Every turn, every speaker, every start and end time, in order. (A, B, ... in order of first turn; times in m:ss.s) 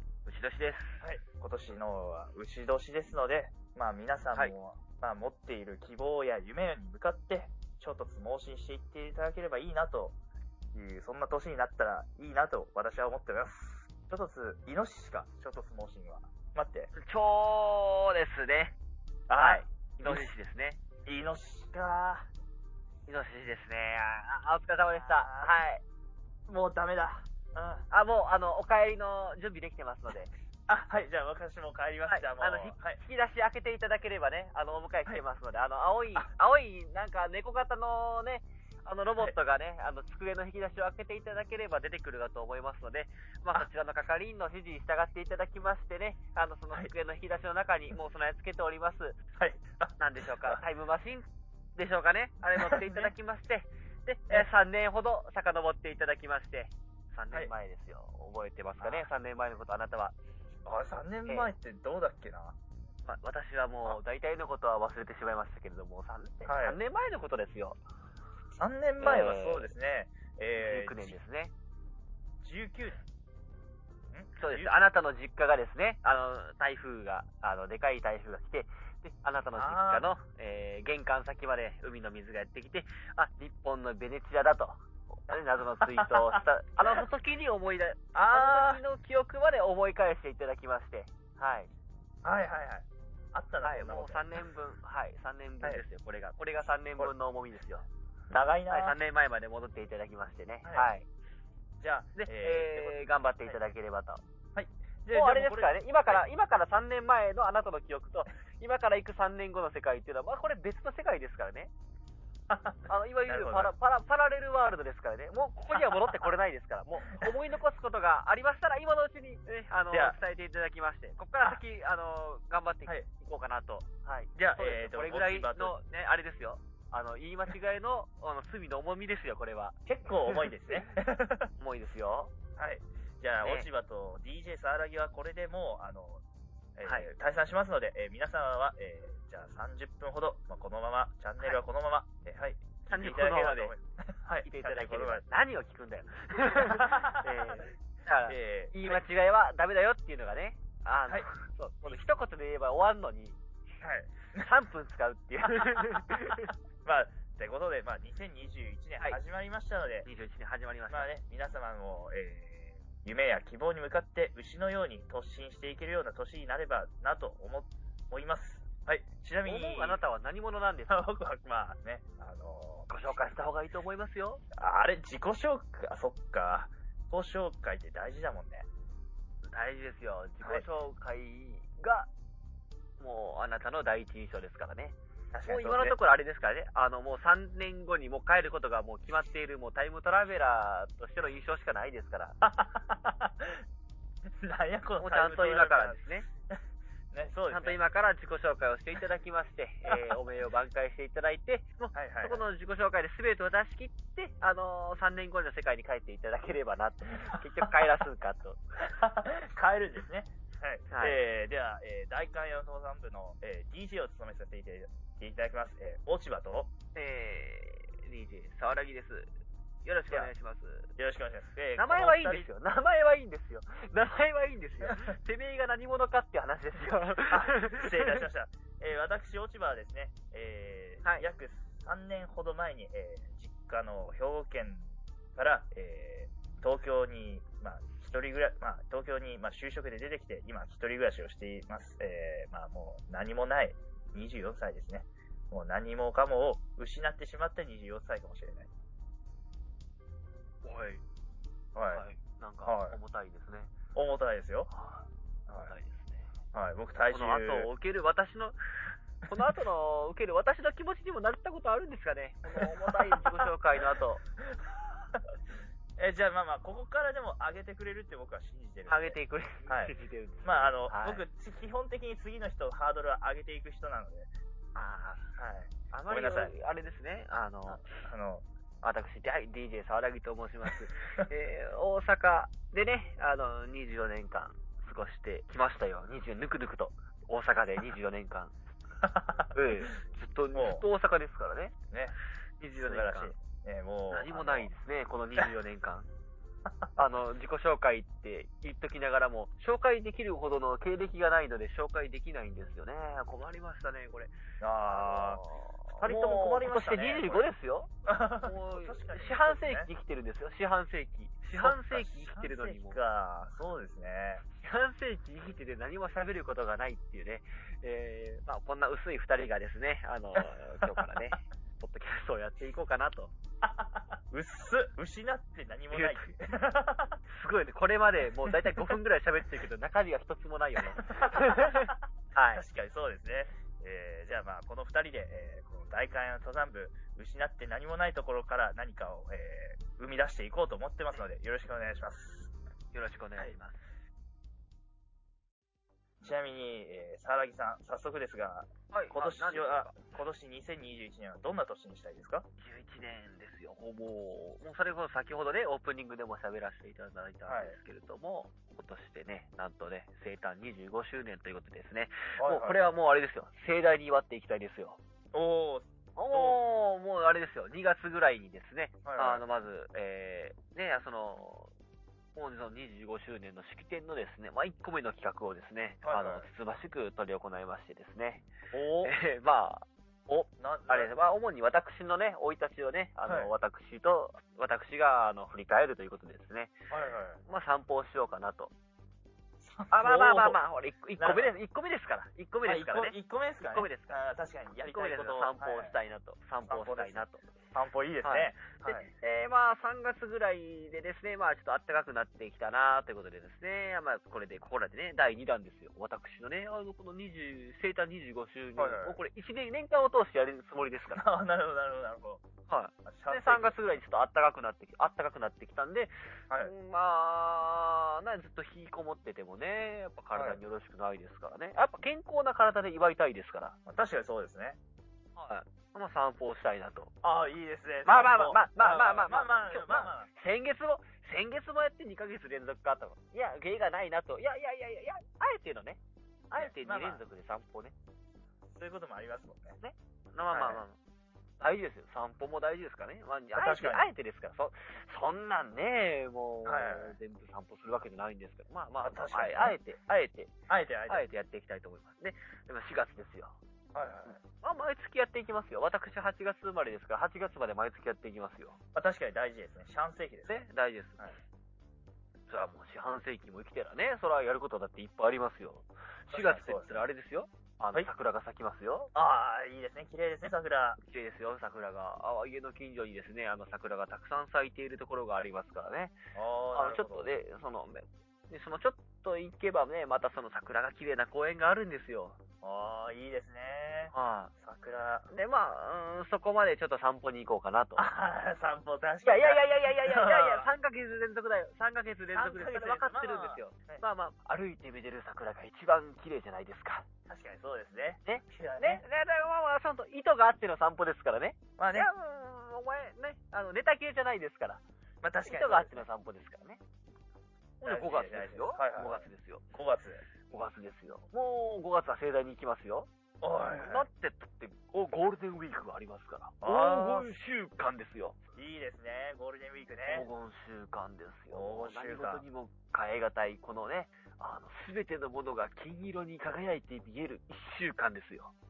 0:00.3-0:01.0 A
0:01.0-0:10.2 B
0:10.7-0:16.9 B
0:16.9-0:18.8 A
0:19.3-0:20.3 B
0:19.4-0:20.8 A
0:21.0-0:22.3 B
0:23.1-0:25.8 A
0:25.0-0:25.6 B
0:26.5-0:27.9 B
0:27.9-0:30.3 A
0:30.7-0:33.0 B
0:32.1-0:49.2 A
0:49.4-0:50.6 B
0:50.0-1:00.2 A
0:52.6-0:53.1 B
0:58.8-0:59.1 B
1:00.7-1:02.6 B
1:01.3-1:01.5 A
1:03.1-1:07.8 A
1:06.5-1:06.8 B
1:08.6-1:11.2 B
1:09.0-1:09.7 A
1:10.6-1:11.5 A
1:12.4-1:13.0 B
1:14.1-1:14.8 B
1:14.4-1:31.7 A
1:19.6-1:20.1 B
1:25.3-1:27.0 B
1:28.1-1:28.8 B
1:32.2-1:34.3 B
1:33.6-1:37.9 A
1:38.3-1:39.0 B
1:38.7-1:41.1 A
1:40.6-1:40.9 B
1:41.8-1:43.6 B
1:42.2-1:44.2 A
1:44.6-1:46.2 B
1:45.1-1:51.7 A
1:52.5-1:53.7 B
1:52.9-2:10.9 A
1:55.8-1:56.1 B
1:59.9-2:00.2 B
2:04.4-2:05.8 B
2:09.9-2:11.5 B
2:11.6-2:12.3 A
2:12.6-2:16.2 B
2:13.4-2:13.7 A
2:16.8-2:25.2 B
2:16.8-2:17.1 A
2:22.9-2:23.7 A
2:24.4-2:33.4 A
2:26.5-2:27.7 B
2:28.3-2:29.0 B
2:33.8-2:34.5 B
2:34.4-2:36.5 A
2:35.7-2:40.1 B
2:40.0-2:41.1 A
2:40.9-2:50.0 B
2:49.4-2:51.0 A
2:50.9-2:52.9 B
2:52.9-2:54.4 A
2:54.5-2:58.7 B
2:59.5-3:02.1 A
3:03.0-3:05.0 A
3:05.3-3:06.0 B
3:05.5-3:12.4 A
3:12.4-3:13.6 B
3:14.3-3:16.6 B
3:15.0-3:16.3 A
3:17.1-3:17.8 B
3:17.5-3:28.6 A
3:19.9-3:20.2 B
3:21.9-3:22.4 B
3:27.3-3:27.9 B
3:28.8-3:36.7 B
3:30.9-3:31.2 A
3:37.0-3:39.3 A
3:39.8-3:40.9 A
3:41.0-3:42.5 B
3:41.8-3:48.2 A
3:44.8-3:45.2 B
3:47.3-4:08.7 B
4:10.6-4:11.0 A
4:11.8-4:12.0 B
4:11.9-4:13.7 A
4:12.6-4:13.0 B
4:14.0-4:14.7 B
4:15.6-4:16.3 A
4:16.5-4:17.7 B
4:17.1-4:18.6 A
4:19.3-4:24.2 A
4:22.5-4:23.5 B
4:24.4-4:25.3 B
4:26.0-4:34.3 B
4:28.9-4:31.2 A
4:34.8-4:35.3 A
4:35.4-4:36.5 B
4:35.9-4:38.0 A
4:37.7-4:38.4 B
4:38.8-4:48.5 A
4:49.0-4:49.5 B
4:49.5-4:51.8 A
4:50.5-4:50.8 B
4:51.9-4:52.2 B
4:52.6-4:53.4 A
4:52.8-4:54.7 B
4:54.1-4:56.1 A
4:57.0-5:04.3 A
5:04.6-5:05.4 B
5:04.9-5:07.9 A
5:06.0-5:07.5 B
5:08.0-5:09.9 B
5:08.4-5:13.0 A
5:11.5-5:14.4 B
5:14.5-5:23.3 A
5:20.4-5:21.1 B
5:23.8-5:27.2 B
5:25.9-5:26.2 A
5:27.3-5:32.7 A
5:28.5-5:28.8 B
5:31.0-5:31.9 B
5:32.6-5:42.5 B
5:42.9-5:43.8 A
5:46.2-5:52.5 B
5:48.9-5:50.0 A
5:52.6-6:05.0 A
5:57.5-5:57.8 B
6:02.4-6:02.9 B
6:05.3-6:06.6 B
6:06.2-6:11.7 A
6:09.0-6:09.4 B
6:12.4-6:18.5 A
6:16.0-6:16.5 B
6:18.7-6:19.1 B
6:19.0-6:26.7 A
6:20.6-6:21.1 B
6:26.9-6:27.4 B
6:27.5-6:28.7 A
6:29.6-6:30.6 B
6:29.9-6:33.2 A
6:31.2-6:31.5 B
6:32.6-6:35.9 B
6:33.7-6:34.2 A
6:34.8-6:37.5 A
6:36.7-6:39.1 B
6:38.2-6:51.2 A
6:48.8-6:49.2 B
6:51.1-6:52.4 B
6:52.7-7:03.8 A
6:53.0-6:53.8 B
7:00.3-7:00.6 B
7:03.9-7:04.8 B
7:05.4-7:07.1 A
7:07.2-7:10.3 B
7:08.0-7:17.9 A
7:16.6-7:17.2 B
7:18.7-7:19.8 B
7:19.8-7:21.0 A
7:20.5-7:20.8 B
7:21.6-7:33.6 A
7:23.6-7:24.1 B
7:26.6-7:27.2 B
7:29.0-7:29.8 B
7:30.7-7:31.3 B
7:33.9-7:34.4 B
7:34.3-7:38.8 A
7:38.9-7:40.7 B
7:40.5-7:41.4 A
7:42.5-7:49.1 A
7:46.3-7:47.1 B
7:49.1-7:51.0 B
7:51.0-7:56.2 A
7:56.3-7:57.3 B
7:56.7-8:02.4 A
8:02.6-8:05.3 B
8:04.1-8:04.5 A
8:05.3-8:08.1 A
8:08.0-8:10.7 B
8:09.2-8:17.1 A
8:12.3-8:14.0 B
8:17.3-8:19.0 B
8:18.3-8:24.8 A
8:21.8-8:22.1 B
8:25.2-8:26.0 B
8:25.4-8:26.8 A
8:27.8-8:29.6 A
8:27.8-8:30.2 B
8:30.5-8:33.1 A
8:33.4-8:34.1 B
8:33.7-8:38.4 A
8:36.6-8:37.4 B
8:38.6-8:40.3 B
8:40.1-8:48.5 A
8:41.5-8:42.4 B